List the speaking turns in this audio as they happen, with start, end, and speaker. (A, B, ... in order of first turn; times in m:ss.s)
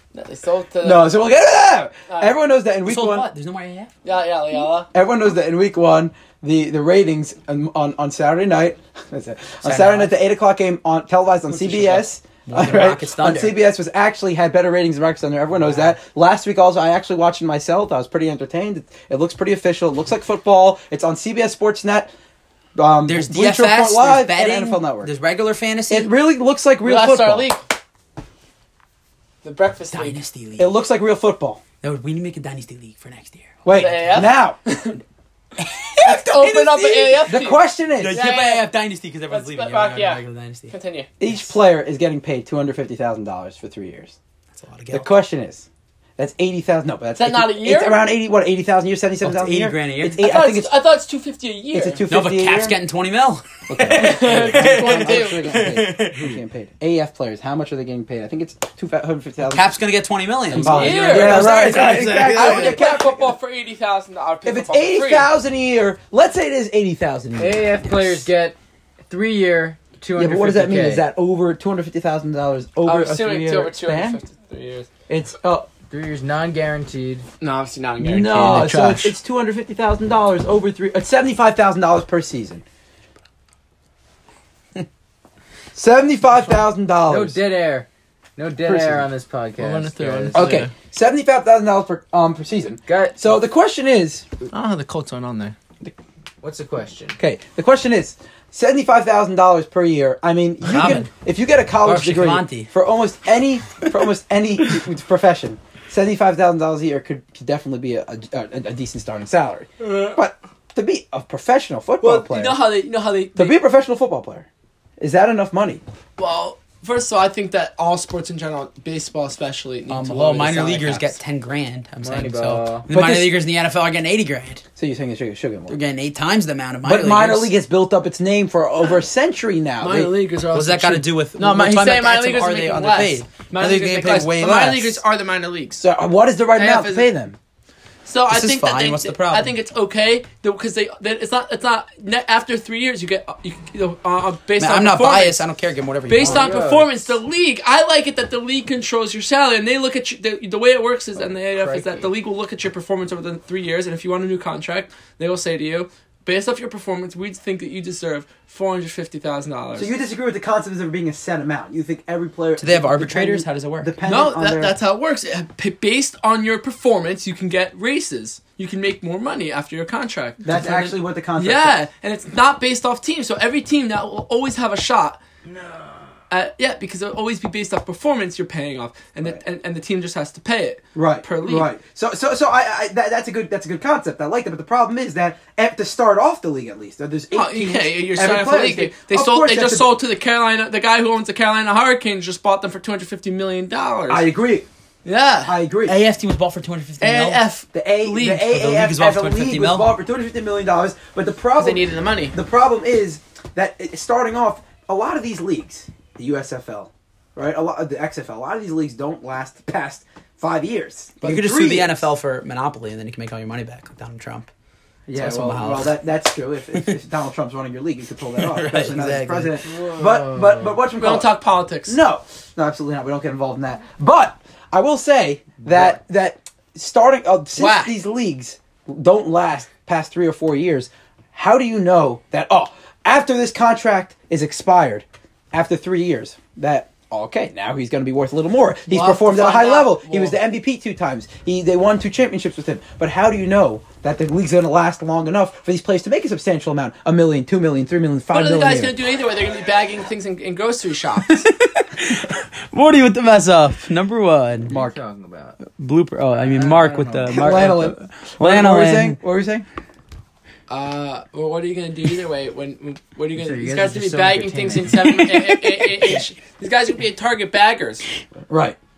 0:00.1-0:01.1 A
0:00.8-0:03.3 B
0:02.1-0:02.3 A
0:02.8-0:03.9 C
0:04.0-0:04.9 A
0:04.9-0:22.1 B
0:09.6-0:10.1 C
0:11.5-0:13.6 C
0:22.7-0:25.1 B
0:23.0-0:26.1 C
0:25.9-0:27.5 B
0:26.8-0:27.7 A
0:29.4-0:30.2 A
0:29.9-0:30.7 C
0:30.6-0:31.6 B
0:31.8-0:34.2 C
0:33.6-0:34.6 B
0:33.7-0:35.0 A
0:35.9-0:38.7 A
0:36.0-0:38.2 B
0:38.0-0:40.7 C
0:39.3-0:41.1 A
0:41.2-0:44.2 B
0:41.2-0:41.5 C
0:44.5-0:45.1 C
0:44.9-0:45.6 B
0:46.2-0:50.8 B
0:47.2-0:48.1 A
0:49.2-0:50.3 C
0:50.1-0:52.0 A
0:51.7-0:52.8 B
0:52.1-0:56.4 C
0:53.7-0:59.6 B
0:53.8-0:55.7 A
0:59.5-1:03.0 C
1:00.5-1:03.3 B
1:00.5-1:05.3 A
1:04.4-1:07.6 B
1:07.4-1:08.6 D
1:07.7-1:08.2 C
1:09.1-1:11.1 D
1:10.2-1:14.2 B
1:12.8-1:14.9 A
1:15.1-1:15.7 B
1:15.9-1:17.2 D
1:17.4-1:19.2 A
1:18.0-1:22.6 B
1:25.7-1:27.4 B
1:27.1-1:30.5 D
1:28.6-1:29.0 B
1:29.6-1:30.7 A
1:30.3-1:34.2 B
1:32.9-1:33.2 D
1:34.5-1:35.6 A
1:36.4-1:37.2 D
1:37.2-1:52.7 B
1:40.6-1:41.1 C
1:41.8-1:42.7 C
1:52.0-1:53.6 A
1:53.3-1:54.5 B
1:55.0-1:55.8 B
1:56.2-2:01.1 A
1:59.9-2:04.6 C
2:02.0-2:02.9 D
2:02.9-2:03.4 B
2:04.8-2:05.8 B
2:05.7-2:07.5 C
2:06.8-2:10.1 B
2:09.8-2:15.8 A
2:10.5-2:15.0 C
2:15.8-2:17.4 B
2:16.5-2:17.1 A
2:18.0-2:25.4 A
2:18.3-2:19.5 C
2:24.6-2:26.5 C
2:26.1-2:39.9 A
2:26.2-2:27.1 D
2:31.2-2:32.1 D
2:39.8-2:44.8 B
2:42.6-2:43.9 C
2:44.0-2:50.6 A
2:50.4-2:51.8 B
2:50.5-2:50.9 C
2:51.4-2:55.2 A
2:55.5-2:55.9 D
2:56.3-3:01.7 A
3:00.9-3:10.0 B
3:07.3-3:14.3 A
3:14.1-3:14.7 B
3:15.0-3:15.5 A
3:15.4-3:15.9 B
3:15.8-3:17.4 C
3:17.0-3:18.5 A
3:17.7-3:32.1 B
3:18.4-3:19.9 C
3:21.6-3:22.4 A
3:31.2-3:34.5 C
3:35.1-3:41.3 B
3:35.1-3:35.9 C
3:38.3-3:39.6 C
3:40.0-3:40.6 D
3:40.9-3:42.0 A
3:41.9-4:09.0 B
3:47.6-3:48.0 A
3:58.9-4:00.4 A
4:08.3-4:11.4 A
4:11.3-4:14.7 C
4:14.7-4:15.0 B
4:14.7-4:15.6 D
4:15.7-4:19.2 C
4:16.4-4:17.6 D
4:17.3-4:19.6 B
4:20.7-4:28.0 A
4:23.4-4:25.0 D
4:28.5-4:28.8 B